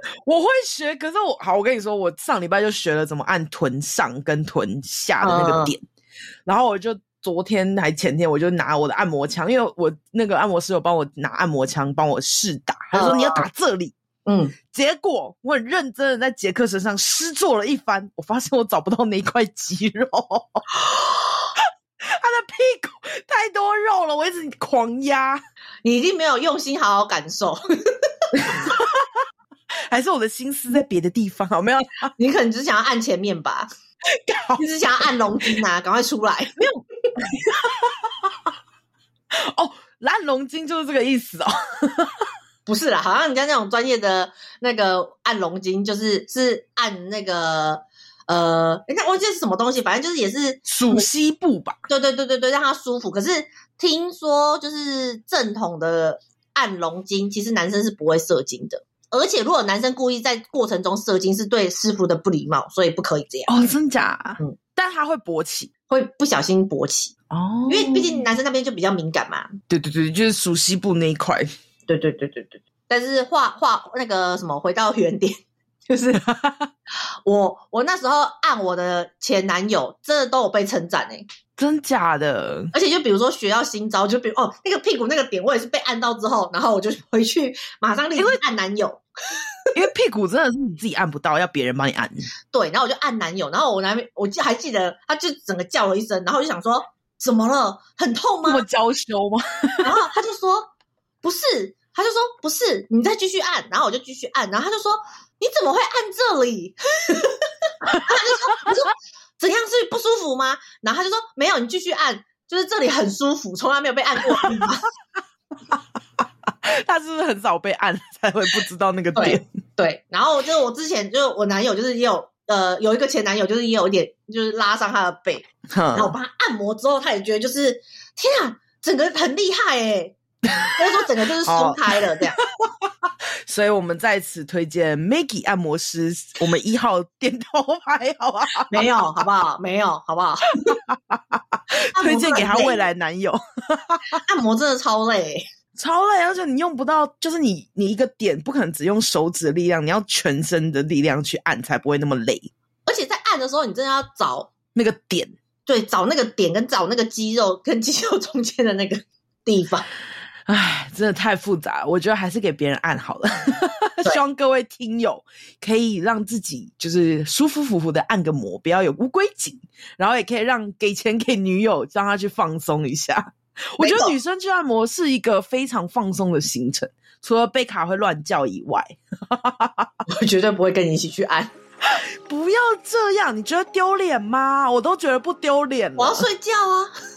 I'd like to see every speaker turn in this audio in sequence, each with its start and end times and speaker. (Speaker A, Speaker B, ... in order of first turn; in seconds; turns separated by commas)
Speaker A: 0.2-5.8, Speaker B: 5.2-5.7, Speaker A: 6.5-13.9, Speaker B: 12.9-13.4, Speaker B: 14.2-14.5, Speaker A: 14.7-20.6, Speaker A: 21.6-25.4, Speaker B: 25.8-27.6, Speaker B: 28.3-28.6, Speaker A: 28.4-29.1, Speaker A: 29.9-32.1, Speaker B: 32.2-33.7, Speaker A: 34.1-35.1, Speaker B: 34.6-37.2, Speaker A: 37.2-38.3, Speaker A: 39.3-42.3, Speaker B: 42.6-51.0, Speaker A: 50.6-51.8, Speaker B: 51.9-63.6, Speaker A: 63.5-65.7, Speaker B: 65.9-67.1, Speaker A: 67.3-68.2, Speaker B: 67.7-69.5, Speaker A: 69.7-71.5, Speaker B: 71.9-76.2, Speaker A: 76.2-76.7, Speaker B: 77.2-81.2, Speaker A: 81.6-82.7, Speaker B: 82.7-89.0, Speaker A: 89.7-92.3, Speaker B: 92.5-98.6, Speaker A: 98.5-100.0, Speaker B: 99.8-114.8, Speaker A: 107.8-108.8, Speaker A: 116.6-119.4, Speaker B: 119.1-132.4, Speaker A: 125.7-126.1, Speaker A: 131.4-132.9, Speaker A: 133.4-138.9, Speaker B: 138.7-140.8, Speaker A: 140.7-144.2, Speaker B: 141.9-142.8, Speaker B: 144.2-145.4, Speaker A: 145.7-152.5, Speaker B: 152.8-154.5, Speaker A: 154.7-155.3, Speaker B: 155.7-159.9, Speaker A: 160.5-179.9, Speaker B: 173.8-174.1, Speaker B: 180.1-181.5, Speaker A: 181.8-186.2, Speaker B: 186.0-186.9